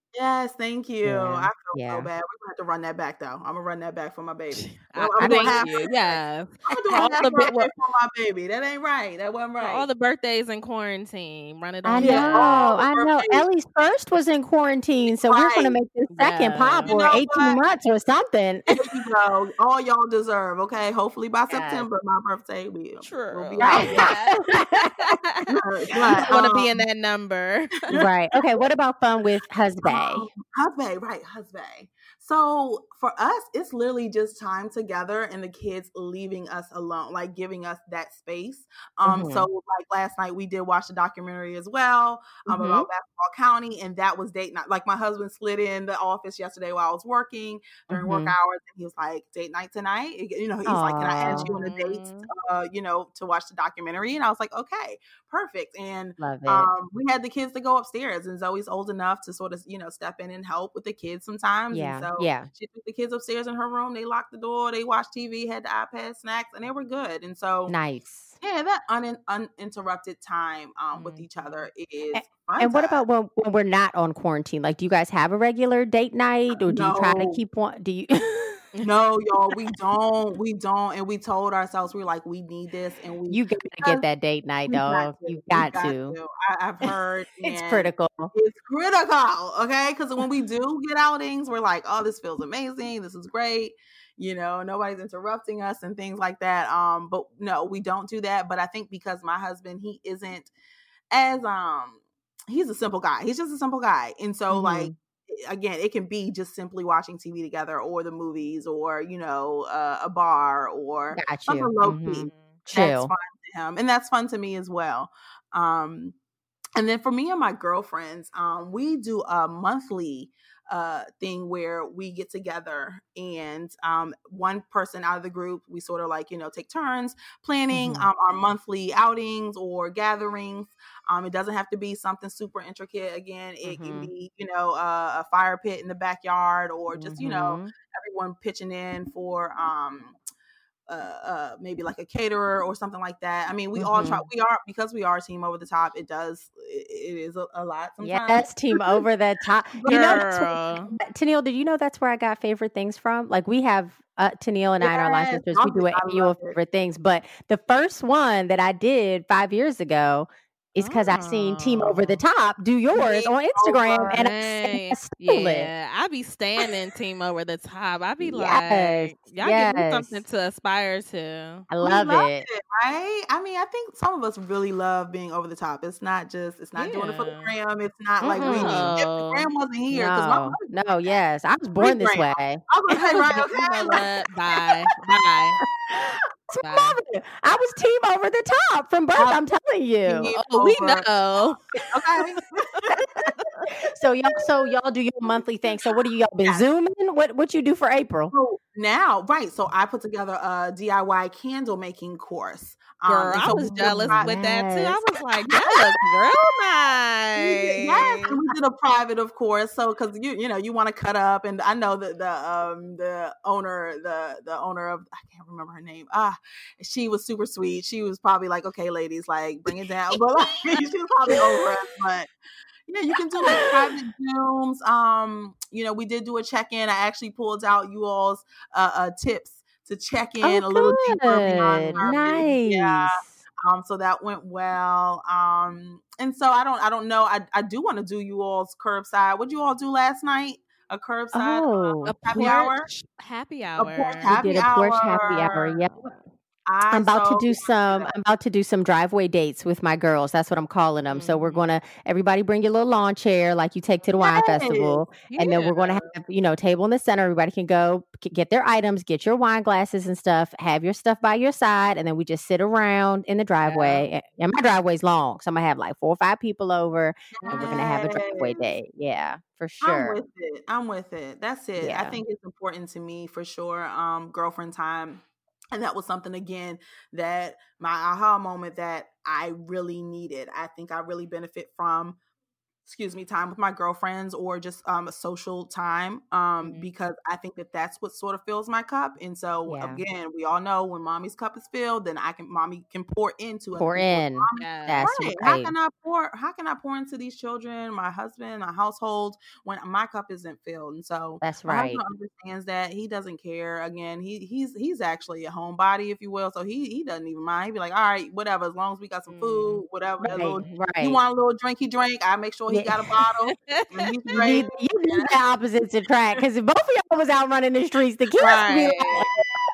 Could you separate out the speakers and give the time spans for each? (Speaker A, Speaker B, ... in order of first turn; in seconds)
Speaker A: 0.1-9.9, 12.0-13.4, 15.1-15.8, 16.9-17.6, 18.7-24.2, 25.5-26.8, 29.9-67.7, 68.4-73.0, 76.6-77.4, 78.8-84.0, 84.7-100.5, 101.1-116.2, 116.8-140.2, 140.9-149.0, 149.8-150.3, 154.8-156.6, 162.9-164.2, 171.8-180.7, 181.8-184.8, 189.2-189.4, 190.1-191.1, 191.9-193.6, 198.3-204.4, 205.5-206.4, 207.4-222.3, 222.9-242.9, 243.8-245.8, 246.7-248.1, 254.2-255.0, 267.4-268.7, 269.8-282.2, 282.9-315.4, 318.6-319.1
Speaker B: 1.0-2.1, 5.2-5.6, 11.8-18.6, 21.5-21.9, 23.6-25.2, 27.9-30.3, 39.0-39.5, 42.5-42.9, 47.9-48.4, 50.7-51.5, 56.2-56.7, 61.7-62.5, 67.7-68.4, 72.1-78.7, 83.3-86.2, 87.4-88.3, 104.5-104.9, 111.1-113.1, 127.7-128.1, 133.7-134.1, 136.9-137.7, 143.8-144.3, 148.0-165.7, 168.2-170.2, 171.7-172.5, 178.2-178.9, 179.9-182.6, 185.9-190.3, 192.9-198.3, 203.4-205.0, 223.4-223.8, 230.4-233.3, 241.3-242.2, 244.3-246.2, 246.9-270.2, 271.8-272.2, 289.7-290.0, 293.8-295.7, 301.4-302.0, 310.2-311.2, 312.7-313.0, 314.4-319.5
Speaker C: 4.5-7.7, 9.6-12.7, 16.1-16.9, 23.0-25.5, 26.1-27.9, 51.3-52.3, 71.0-71.7, 112.3-112.7, 149.9-150.9, 160.8-162.2, 164.1-171.7, 176.8-177.6, 178.4-179.5, 182.9-185.6, 186.6-187.0, 190.4-191.6, 203.1-208.4, 242.0-244.3, 251.1-251.7, 255.3-256.1, 263.6-264.1, 267.4-267.8, 294.6-295.1, 309.3-310.8, 313.5-314.6, 318.4-319.3